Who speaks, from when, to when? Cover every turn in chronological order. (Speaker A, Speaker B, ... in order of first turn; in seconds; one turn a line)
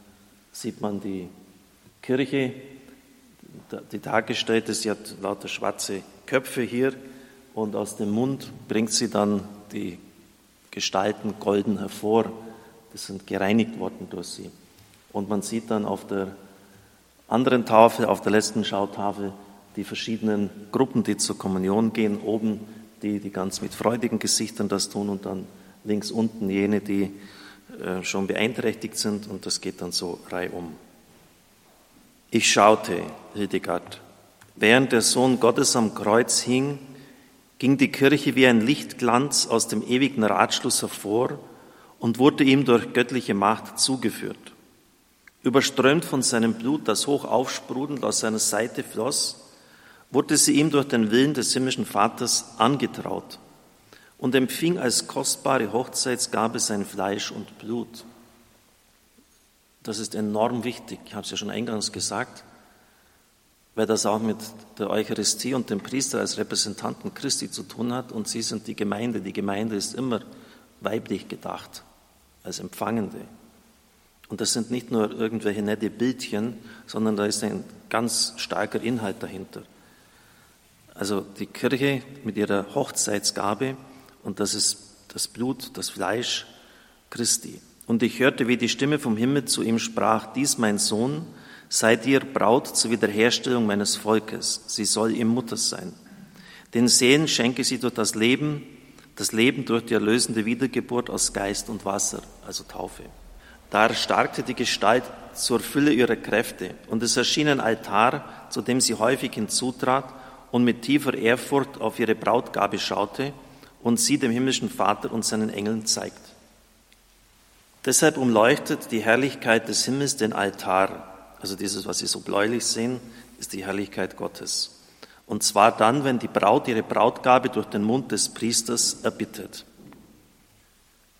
Speaker A: 0.5-1.3
Speaker A: 2.0-2.7
Speaker A: 3.7-7.0
Speaker A: 7.5-10.0
Speaker A: 10.7-12.3
Speaker A: 12.9-14.5
Speaker A: 15.1-16.4
Speaker A: 17.3-27.1
Speaker A: 27.7-30.8
Speaker A: 32.3-34.0
Speaker A: 34.6-36.8
Speaker A: 37.6-41.4
Speaker A: 42.0-44.5
Speaker A: 45.4-49.4
Speaker A: 50.1-53.4
Speaker A: 54.2-58.0
Speaker A: 59.8-62.4
Speaker A: 63.7-70.2
Speaker A: 70.8-71.8
Speaker A: 72.4-73.3
Speaker A: 74.3-79.7
Speaker A: 81.0-86.5
Speaker A: 87.1-96.0
Speaker A: 96.7-103.1
Speaker A: 103.7-116.3
Speaker A: 117.8-124.7
Speaker A: 125.3-129.7